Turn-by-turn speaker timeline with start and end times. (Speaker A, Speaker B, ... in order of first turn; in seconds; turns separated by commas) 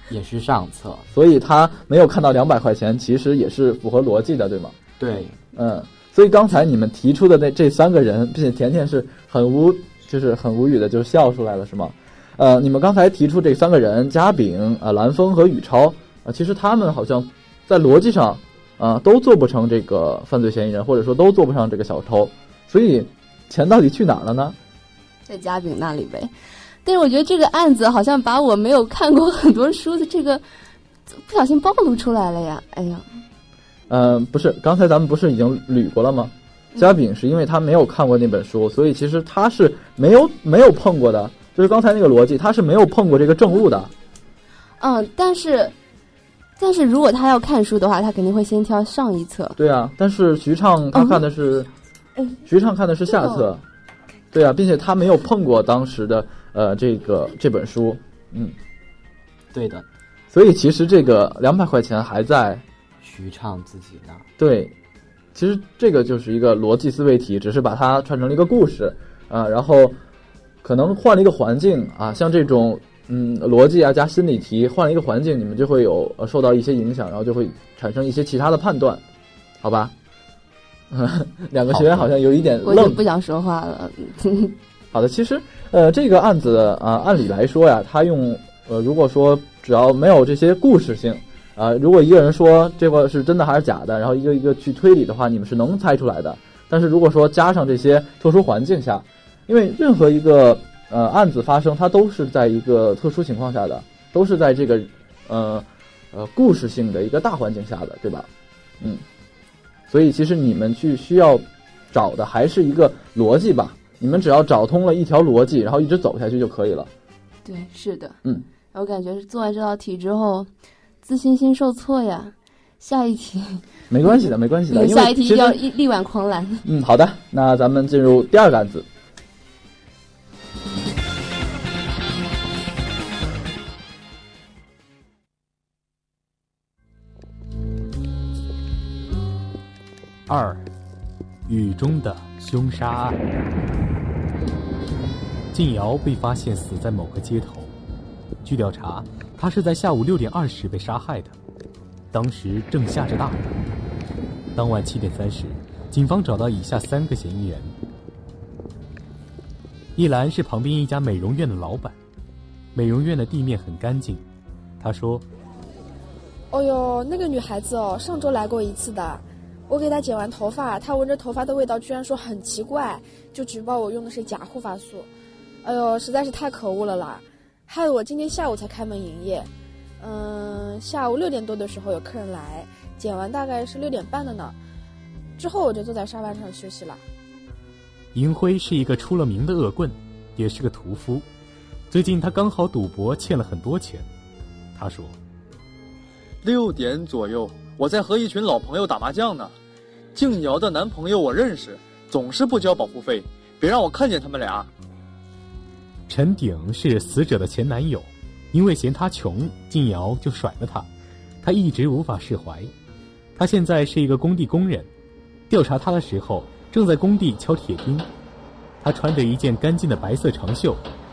Speaker A: 0.1-1.1, Speaker B: 1.1-4.7, Speaker A: 5.0-5.4, Speaker B: 5.5-24.6, Speaker C: 25.3-26.3, Speaker C: 26.8-30.4, Speaker C: 31.1-33.2, Speaker B: 33.9-43.9, Speaker C: 44.8-45.7, Speaker C: 46.6-49.5, Speaker B: 49.6-51.7, Speaker C: 50.9-51.2, Speaker B: 52.4-53.6, Speaker C: 53.1-53.4, Speaker B: 54.3-58.5, Speaker A: 59.5-59.8, Speaker B: 60.3-62.6, Speaker A: 63.0-64.3, Speaker B: 64.4-64.7, Speaker B: 65.3-70.0, Speaker B: 70.6-79.0, Speaker B: 79.6-79.9, Speaker B: 80.9-83.0, Speaker A: 81.7-82.1, Speaker C: 82.6-84.5, Speaker B: 84.9-108.3, Speaker B: 109.9-116.9, Speaker C: 117.4-118.2, Speaker C: 118.7-120.5, Speaker C: 121.0-126.6, Speaker B: 123.9-125.6, Speaker B: 126.6-128.9, Speaker D: 140.3-140.6, Speaker D: 141.4-143.2, Speaker D: 145.5-147.7, Speaker D: 148.4-151.3, Speaker D: 152.1-153.6, Speaker D: 154.5-157.7, Speaker D: 159.9-161.9, Speaker D: 162.7-164.2, Speaker D: 164.8-165.2, Speaker E: 166.5-175.1, Speaker E: 175.6-179.5, Speaker E: 180.0-184.6, Speaker E: 185.4-187.0, Speaker D: 188.1-191.2, Speaker D: 191.9-194.1, Speaker D: 194.7-195.2, Speaker F: 196.4-199.5, Speaker F: 200.1-204.7, Speaker D: 206.1-210.9, Speaker D: 211.4-212.7, Speaker D: 213.4-214.9, Speaker D: 215.5-218.1, Speaker D: 218.8-220.8